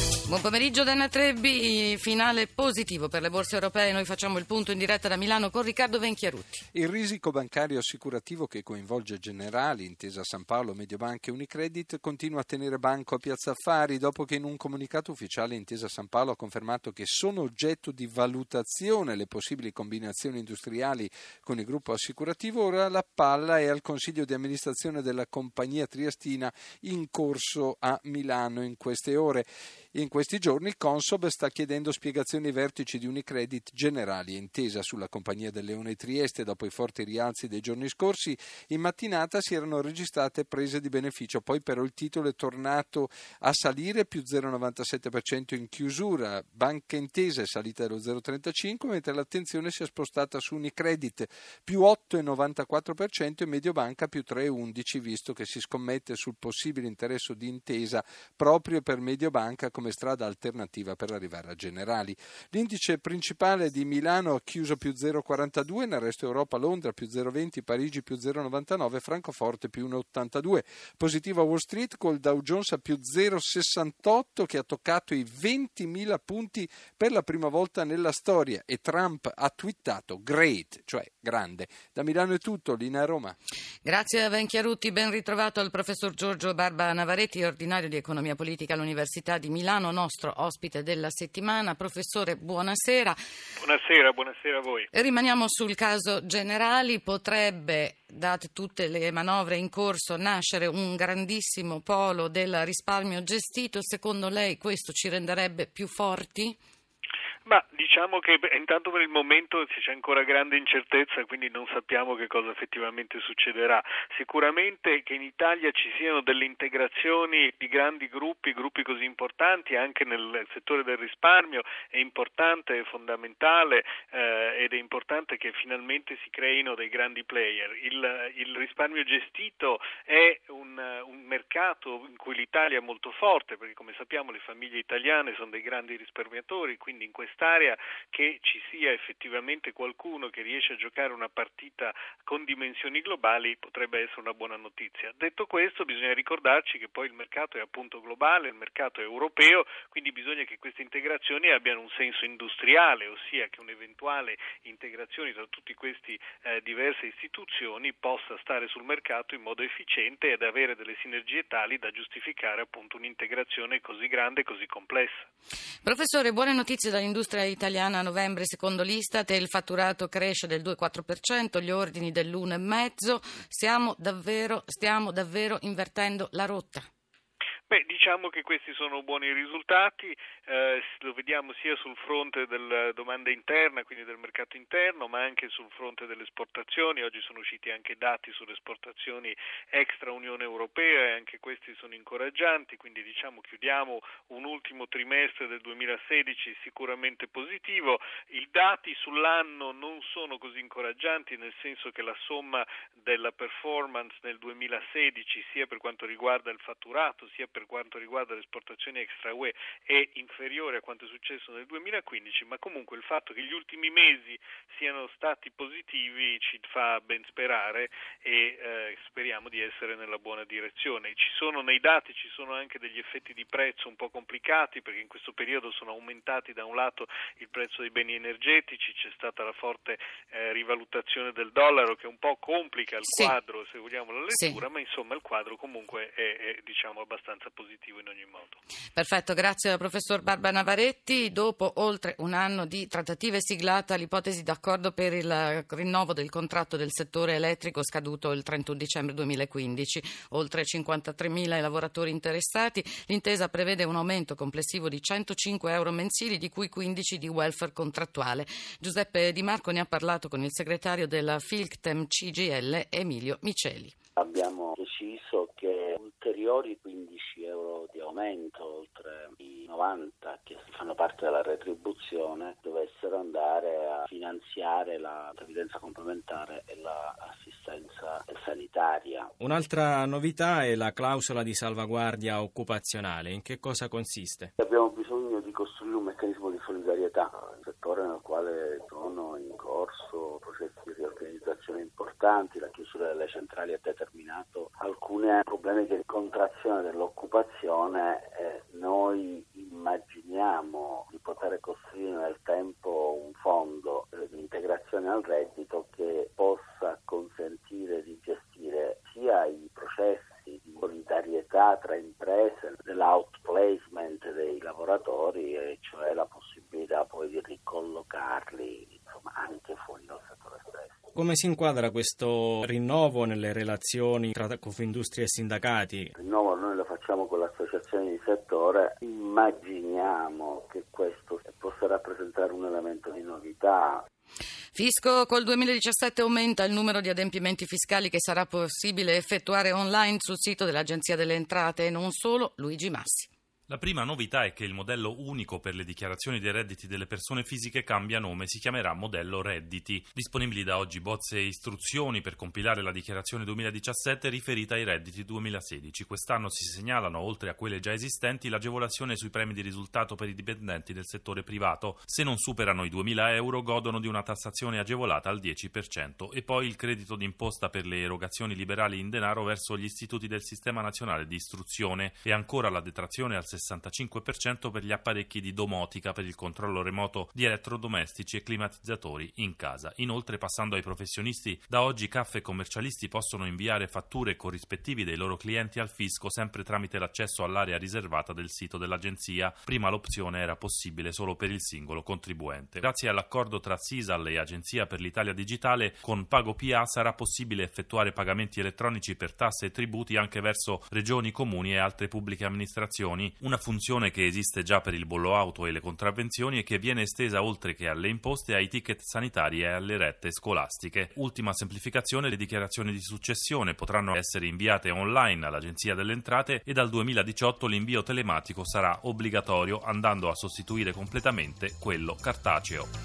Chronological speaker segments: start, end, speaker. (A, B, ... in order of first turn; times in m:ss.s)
0:00.3-0:06.6 A
0:06.7-1:23.4 B
1:23.8-1:33.2 A
1:33.6-1:34.9 C
1:34.9-1:46.6 A
1:47.4-2:45.3 C
2:45.8-2:56.9 A
2:57.7-3:58.6 C
3:53.1-3:53.3 A
3:54.3-3:54.6 A
3:58.9-4:23.9 A
4:24.2-4:39.3 D
4:39.4-4:44.5 E
4:44.6-5:21.0 D
5:21.2-5:26.1 E
5:26.1-5:34.0 D
5:34.7-5:43.3 A
5:43.7-7:02.9 F